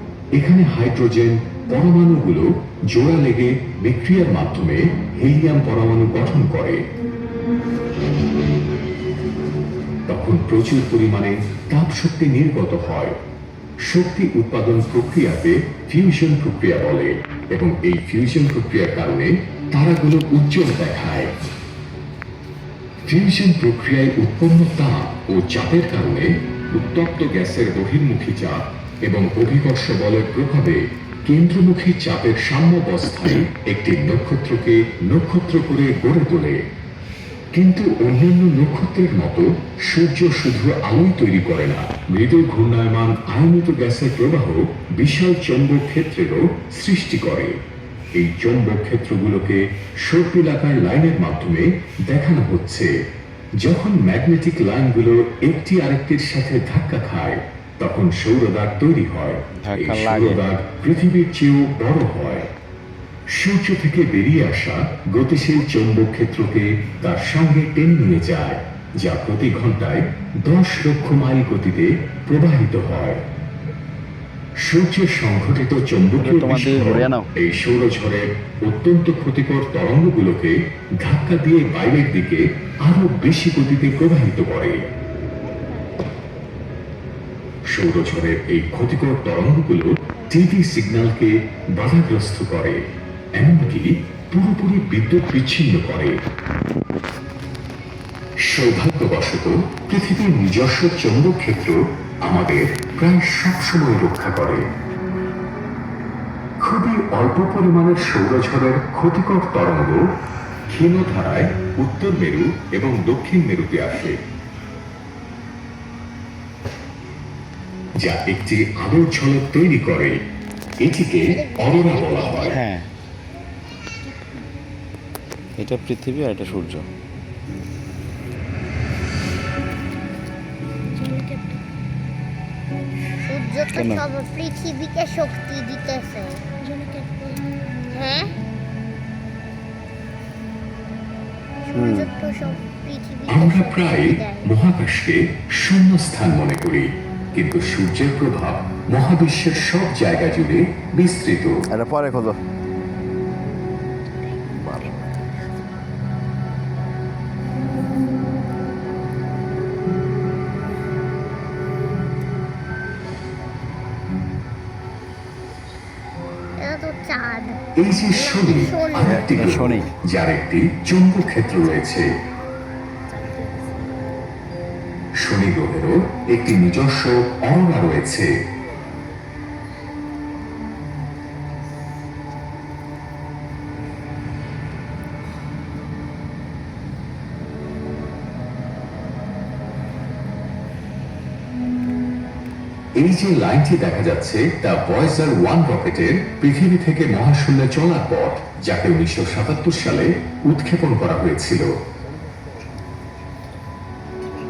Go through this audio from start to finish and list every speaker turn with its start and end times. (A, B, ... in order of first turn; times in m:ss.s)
0:00.4-0:06.8 A
0:10.1-0:13.1 A
0:13.9-0:21.3 A
0:23.0-0:36.6 A
0:37.5-0:47.5 A
0:48.2-0:52.9 A
0:53.6-1:02.5 A
0:59.6-1:00.4 B
1:03.3-1:13.2 A
1:14.6-1:24.8 A
1:16.2-1:17.3 B
1:27.7-1:32.8 A
1:33.4-1:36.1 A
1:38.5-1:44.6 A
1:46.6-1:50.0 A
1:50.7-1:54.2 A
1:58.0-2:00.2 A
2:00.8-2:02.6 A
2:01.2-2:02.6 C
2:02.5-2:02.9 B
2:05.6-2:06.9 B
2:11.0-2:11.6 C
2:13.2-2:18.3 C
2:13.7-2:14.0 B
2:21.7-2:24.5 C
2:21.8-2:22.1 B
2:23.3-2:31.6 A
2:31.7-2:32.4 B
2:34.6-2:35.1 B
2:46.6-2:49.2 C
2:47.8-2:52.1 A
2:49.0-2:49.9 B
2:55.2-2:58.3 A
3:13.0-3:21.7 A